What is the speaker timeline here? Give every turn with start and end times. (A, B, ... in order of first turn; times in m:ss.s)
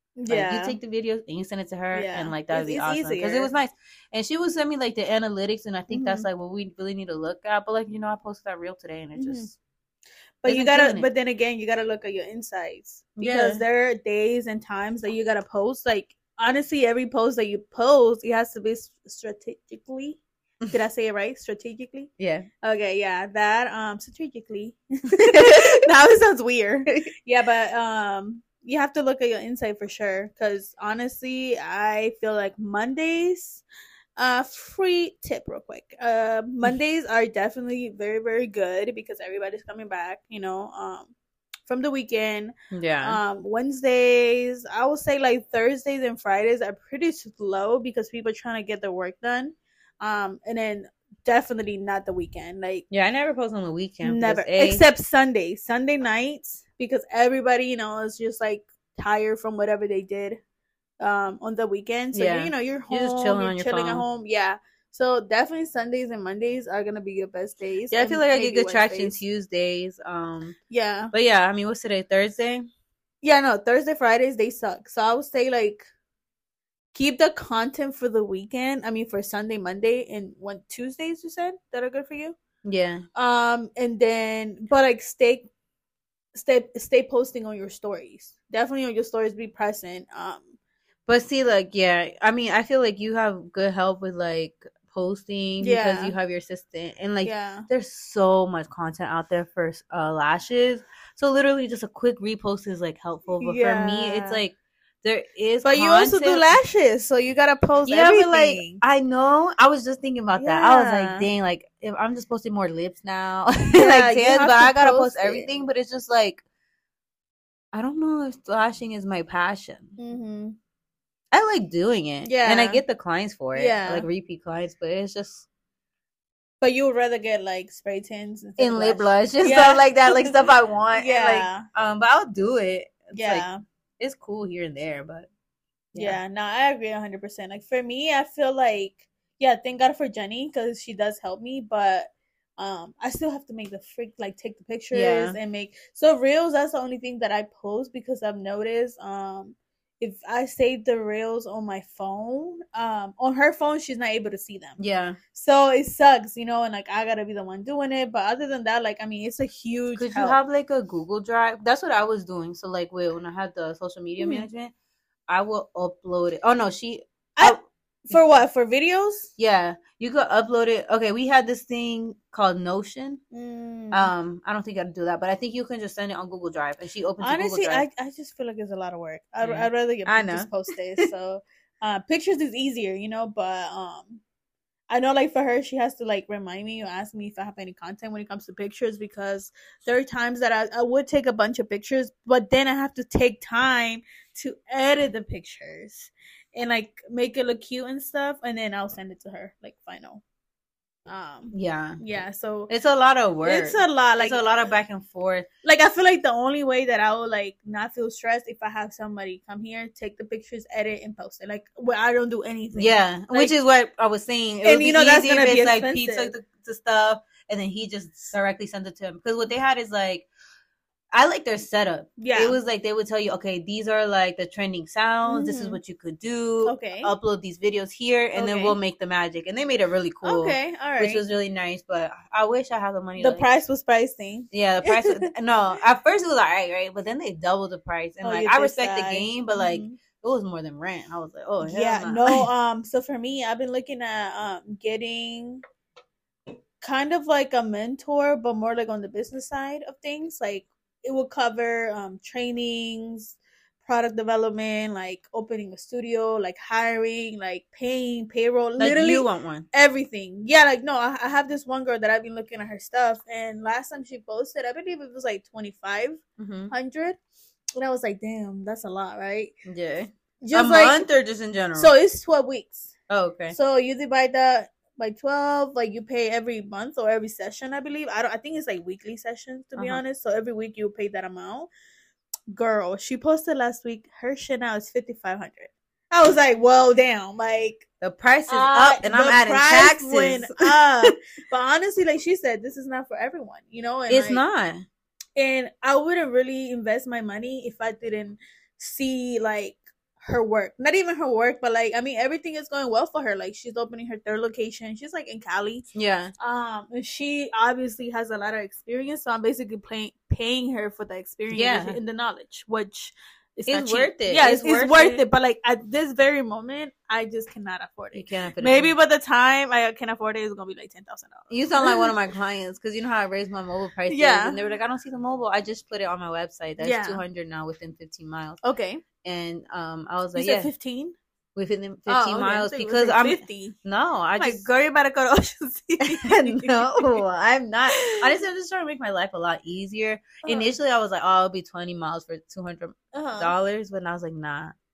0:00.2-0:00.8 A
0:00.3-0:09.6 B
0:01.9-0:03.5 A
0:05.9-0:06.3 A
0:09.2-0:09.5 A
0:10.4-0:20.2 A
0:10.5-0:11.1 B
0:13.2-0:13.6 B
0:20.7-0:33.6 A
0:22.2-0:22.5 B
0:25.2-0:25.8 B
0:34.2-0:41.1 A
0:41.7-0:52.8 A
0:42.7-0:43.2 B
0:52.9-0:54.8 B
0:54.0-1:00.4 A
1:01.0-1:09.2 A
1:02.1-1:04.0 B
1:07.9-1:10.6 B
1:10.7-1:11.1 A
1:11.1-1:12.7 B
1:13.2-1:15.9 A
1:16.9-1:22.4 A
1:22.6-1:23.1 B
1:23.2-1:25.5 A
1:26.3-1:30.5 A
1:31.1-1:46.5 B
1:35.6-1:36.2 A
1:37.2-1:37.7 A
1:43.4-1:44.4 A
1:45.6-1:48.8 A
1:47.9-1:56.4 B
1:50.4-1:51.3 A
1:53.8-1:55.5 A
1:57.7-2:00.0 B
2:00.0-2:00.6 A
2:01.3-2:05.5 B
2:02.2-2:02.8 A
2:03.5-2:04.1 A
2:06.6-2:11.7 A
2:08.6-2:13.5 B
2:13.1-2:13.6 A
2:14.0-2:15.3 B
2:15.9-2:16.2 B
2:16.0-2:34.8 A
2:24.9-2:25.4 B
2:34.8-2:35.2 B
2:35.3-2:40.4 A
2:40.0-2:44.7 B
2:44.2-2:44.5 A
2:45.3-2:48.2 B
2:47.4-2:49.3 A
2:49.4-2:53.2 B
2:53.3-2:54.1 A
2:53.9-2:57.8 B
2:57.2-3:04.2 A
2:59.4-3:01.1 B
3:04.9-3:20.2 A
3:21.1-3:22.7 A
3:21.5-3:22.0 B
3:22.7-3:25.5 B
3:23.4-3:24.7 A
3:25.6-3:33.6 A
3:32.7-3:40.3 B
3:34.6-3:36.3 A
3:41.1-3:53.5 B
3:42.2-3:42.6 A
3:45.3-3:45.8 A
3:46.6-3:47.1 A
3:48.4-3:48.8 A
3:50.2-3:51.2 A
3:53.2-3:55.3 A
3:54.5-4:02.5 B
3:58.2-4:00.0 A
4:01.6-4:05.6 A
4:06.8-4:27.2 A
4:18.8-4:19.7 B
4:26.4-4:26.7 B
4:27.8-4:29.5 A
4:29.7-4:31.9 B
4:30.4-4:31.1 A
4:31.8-4:32.9 A
4:33.1-4:33.6 B
4:33.5-4:41.7 A
4:39.8-4:40.0 B
4:42.5-4:47.8 A
4:48.0-4:51.2 B
4:48.5-4:54.4 A
4:54.1-4:54.8 B
4:55.4-5:05.9 A
5:05.9-5:06.3 B
5:06.4-5:22.1 A
5:11.5-5:12.0 B
5:13.7-5:15.2 B
5:18.1-5:18.9 B
5:21.5-5:28.6 B
5:24.1-5:24.6 A
5:26.8-5:27.2 A
5:28.6-5:29.0 A
5:29.2-5:30.7 B
5:30.4-5:31.2 A
5:31.6-5:34.7 B
5:32.1-5:33.8 A
5:34.4-5:37.2 A
5:36.0-5:44.8 B
5:37.9-5:38.3 A
5:40.4-5:40.7 A
5:43.1-5:43.6 A